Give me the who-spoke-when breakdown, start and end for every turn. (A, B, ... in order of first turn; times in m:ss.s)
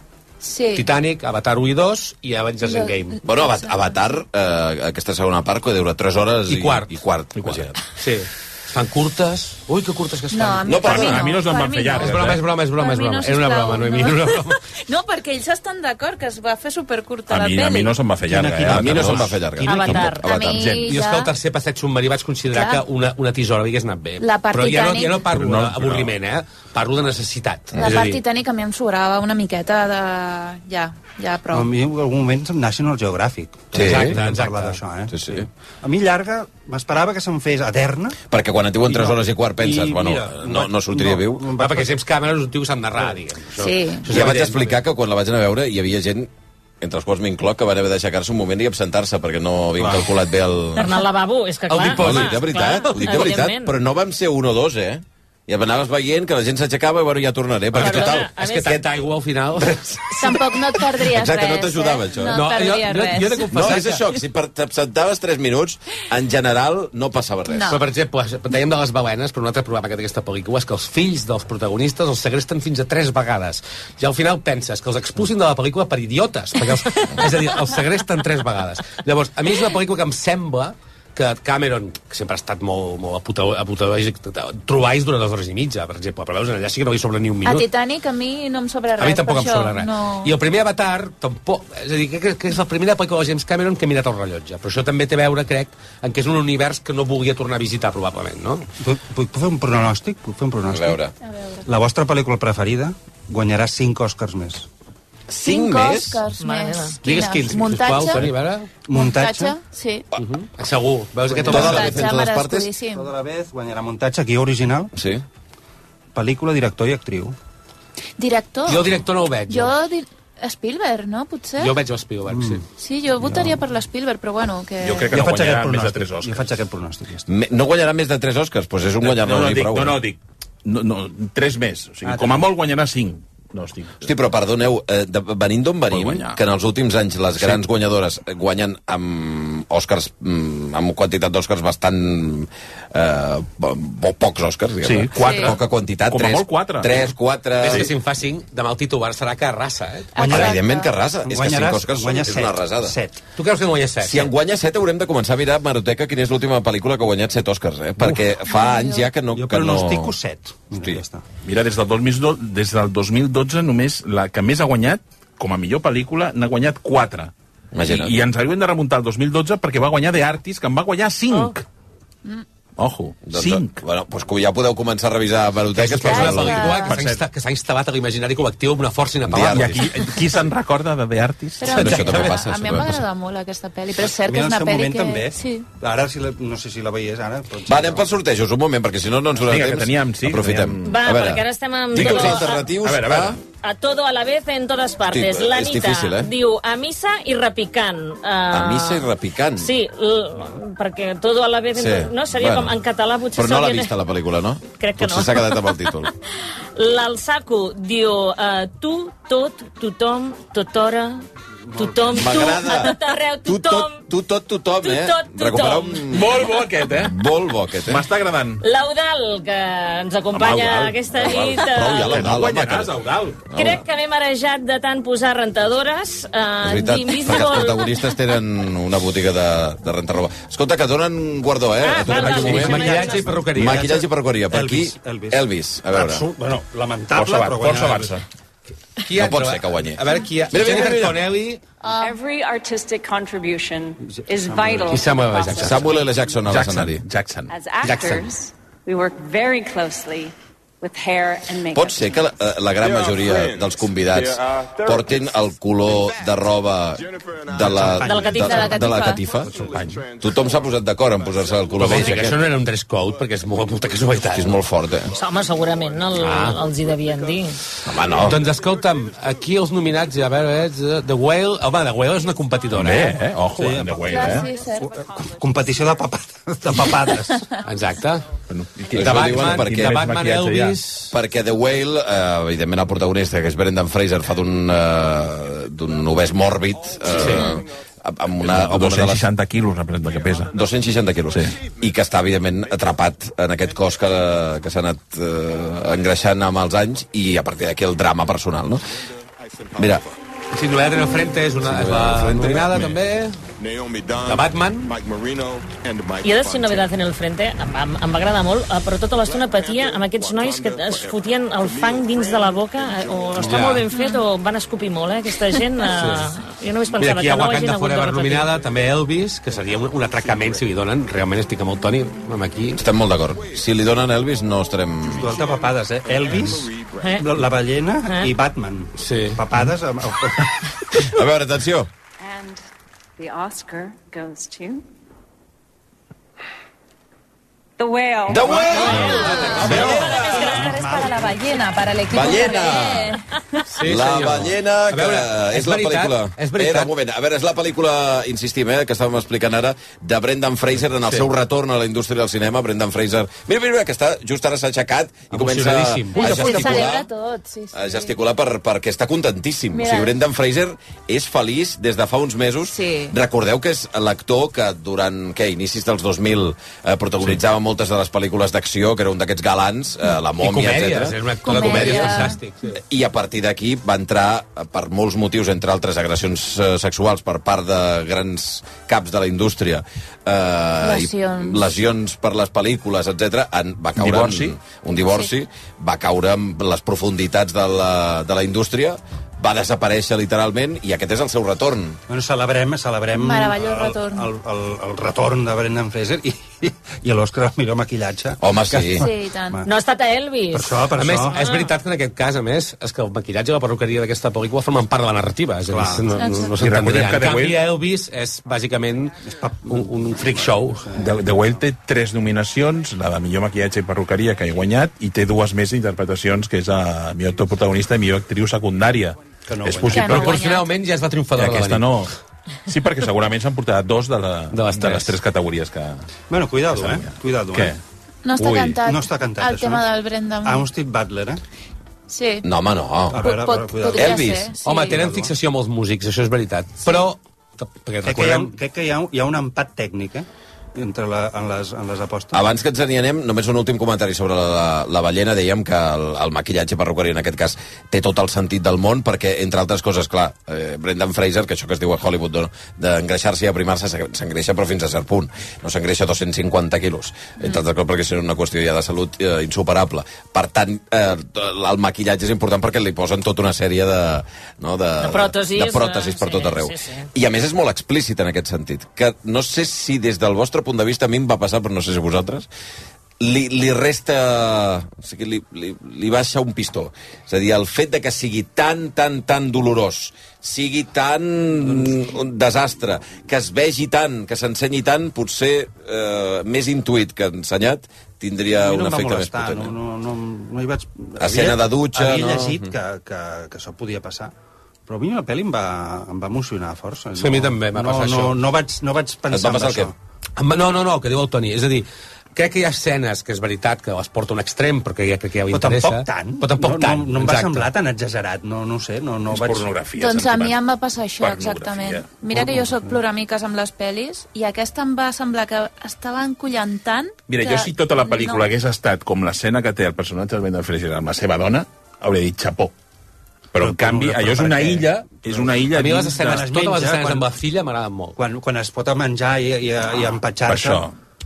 0:00.4-0:00.9 A
0:00.7-0:03.2 B
0:02.6-0:03.4 A
0:03.2-0:07.8 C
0:06.5-0:06.9 B
0:07.4-0:07.7 D
0:08.0-0:11.0 B
0:10.3-0:18.0 A
0:10.6-0:11.3 C
0:10.8-0:12.4 D
0:12.0-0:14.6 B
0:17.3-0:19.4 D
0:18.3-0:20.0 E
0:18.6-0:20.9 C
0:19.6-0:20.3 F
0:20.2-0:21.3 A
0:20.8-0:28.2 B
0:22.5-0:22.8 A
0:24.2-0:25.2 A
0:25.2-0:26.1 D
0:27.7-0:28.0 C
0:27.8-0:31.7 A
0:31.5-0:38.2 E
0:33.7-0:34.8 B
0:33.7-0:34.2 C
0:35.1-0:35.5 C
0:38.3-0:41.4 C
0:38.8-0:41.9 E
0:41.6-0:44.8 B
0:43.6-0:44.2 A
0:44.1-0:51.0 C
0:50.7-0:53.7 F
0:51.7-0:53.0 B
0:51.8-0:58.3 C
0:57.7-1:00.4 B
0:57.8-0:58.8 F
1:00.2-1:03.8 A
1:01.0-1:02.6 C
1:02.3-1:04.1 B
1:03.5-1:07.7 C
1:07.5-1:07.8 A
1:07.7-1:27.7 B
1:27.4-1:30.4 A
1:29.0-1:38.7 B
1:38.8-1:41.0 E
1:40.7-1:41.1 C
1:41.3-1:41.6 A
1:41.6-1:44.7 E
1:45.3-1:46.2 C
1:45.4-1:48.2 A
1:46.4-1:47.0 F
1:47.0-1:48.7 B
1:48.8-1:49.6 E
1:48.9-1:50.1 A
1:50.2-1:52.0 B
1:51.2-1:52.0 E
1:51.4-1:53.1 A
1:51.5-1:52.7 C
1:52.9-1:54.9 E
1:54.9-1:55.2 C
1:56.1-1:57.4 E
1:58.2-2:01.8 A
1:58.7-1:59.7 B
2:01.6-2:02.6 B
2:02.3-2:02.6 E
2:02.8-2:05.1 A
2:03.2-2:03.5 D
2:04.8-2:06.5 D
2:05.1-2:07.3 E
2:07.3-2:10.0 C
2:09.0-2:14.1 D
2:12.0-2:12.5 E
2:14.0-2:27.9 C
2:15.9-2:16.4 D
2:24.8-2:27.1 D
2:25.1-2:25.5 A
2:27.6-2:30.2 B
2:30.1-2:30.9 A
2:30.2-2:30.6 E
2:30.2-2:33.0 C
2:31.2-2:33.2 E
2:33.3-2:34.3 B
2:34.0-2:40.1 C
2:38.4-2:39.1 A
2:39.3-2:41.2 E
2:41.4-2:47.3 D
2:47.7-2:48.1 C
2:47.8-2:51.6 D
2:52.8-2:53.8 D
2:53.2-2:56.8 C
2:55.7-2:59.8 B
2:56.0-2:56.9 A
2:56.9-2:57.2 D
2:59.3-2:59.8 C
2:59.5-3:01.8 D
3:01.6-3:05.7 A
3:01.6-3:03.0 C
3:01.7-3:02.4 B
3:04.1-3:08.1 E
3:07.7-3:13.4 C
3:09.4-3:11.0 D
3:10.8-3:12.6 F
3:11.9-3:13.4 D
3:13.6-3:23.9 F
3:15.1-3:16.3 C
3:18.5-3:19.7 C
3:21.7-3:22.8 C
3:23.3-3:26.1 C
3:24.8-3:26.1 F
3:26.8-3:34.0 F
3:31.7-3:32.4 E
3:32.1-3:38.0 C
3:34.8-3:36.2 F
3:36.1-3:37.2 D
3:37.8-3:38.6 D
3:38.6-3:42.2 F
3:40.3-3:43.4 D
3:41.6-3:42.9 C
3:43.5-3:43.8 C
3:43.5-3:48.1 F
3:46.6-3:56.2 C
3:51.8-3:53.4 F
3:52.1-3:54.0 B
3:52.3-3:58.2 E
3:57.1-3:58.2 D
3:59.0-4:01.6 B
3:59.1-4:01.2 C
4:01.8-4:02.2 A
4:02.0-4:06.3 G
4:04.0-4:05.1 E
4:04.9-4:05.9 B
4:05.6-4:07.0 C
4:06.4-4:07.5 D
4:07.5-4:12.3 G
4:07.8-4:08.3 B
4:11.7-4:19.6 C
4:17.5-4:18.3 E
4:18.0-4:18.8 F
4:18.3-4:19.3 A
4:19.6-4:20.0 D
4:20.2-4:22.4 C
4:21.8-4:24.6 B
4:24.3-4:25.1 C
4:25.1-4:27.6 F
4:26.1-4:26.6 B
4:27.8-4:28.5 C
4:28.1-4:33.2 B
4:32.7-4:34.5 D
4:33.5-4:37.5 E
4:34.1-4:34.9 A
4:37.6-4:38.2 B
4:38.5-4:40.8 D
4:38.9-4:40.0 C
4:38.9-4:41.2 B
4:41.1-4:49.3 C
4:47.1-4:47.5 B
4:48.4-4:50.6 D
4:50.5-4:58.9 C
4:59.8-5:00.0 C
5:00.5-5:03.4 B
5:01.6-5:02.8 C
5:03.6-5:06.8 H
5:04.2-5:04.9 B
5:06.2-5:18.6 F
5:10.2-5:11.1 H
5:13.4-5:13.8 B
5:13.9-5:14.2 A
5:15.9-5:16.3 B
5:17.0-5:22.8 B
5:22.7-5:25.3 C
5:25.1-5:30.7 E
5:26.1-5:27.1 H
5:27.0-5:27.3 F
5:28.0-5:28.3 F
5:29.0-5:29.4 B
5:31.0-5:31.9 C
5:32.2-5:32.6 G
5:33.2-5:34.8 G
5:37.8-5:38.9 G
5:38.3-5:40.2 C
5:38.4-5:40.1 B
5:38.5-5:41.7 E
5:38.9-5:43.6 A
5:38.9-5:41.0 F
5:42.1-5:43.2 C
5:43.7-5:46.9 B
5:43.8-5:57.1 C
5:55.3-5:56.9 B
5:56.2-5:58.1 A
5:57.7-6:32.0 C
5:59.7-6:00.1 A
6:02.7-6:03.1 A
6:10.4-6:12.8 B
6:11.4-6:12.4 A
6:20.8-6:21.6 A
6:24.0-6:24.6 D
6:32.1-6:39.7 E
6:33.1-6:34.3 A
6:38.4-6:39.1 C
6:38.9-6:39.6 A
6:39.6-6:41.7 F
6:40.5-6:41.4 E
6:41.0-6:50.8 B
6:45.7-6:46.3 E
6:46.2-6:46.6 A
6:46.6-6:47.6 D
6:49.2-6:51.3 E
6:50.9-7:00.3 D
6:59.4-7:00.3 E
6:59.8-7:00.7 A
6:59.9-7:02.0 B
7:01.4-7:02.1 D
7:02.7-7:06.0 D
7:04.5-7:05.2 B
7:06.3-7:07.8 E
7:06.7-7:07.8 D
7:08.2-7:10.7 A
7:08.4-7:08.8 D
7:08.8-7:09.9 E
7:10.4-7:11.4 E
7:12.1-7:12.5 A
7:12.4-7:13.2 C
7:13.1-7:15.3 E
7:13.1-7:15.0 A
7:13.9-7:14.5 C
7:14.6-7:18.5 B
7:18.0-7:22.4 E
7:22.3-7:52.5 C
7:45.0-7:47.1 F
7:53.2-8:09.7 C
8:08.5-8:14.3 E
8:11.2-8:12.7 C
8:14.8-8:20.0 E
8:17.2-8:18.4 B
8:19.3-8:19.9 C
8:20.4-8:27.7 B
8:25.5-8:29.8 E
8:29.3-8:30.6 D
8:30.0-8:38.5 A
8:31.2-8:32.1 D
8:32.3-8:33.0 E
8:37.3-8:42.7 D
8:43.5-8:46.4 D
8:43.6-8:47.3 E
8:45.7-8:48.2 B
8:48.2-8:50.9 E
8:50.4-8:50.9 D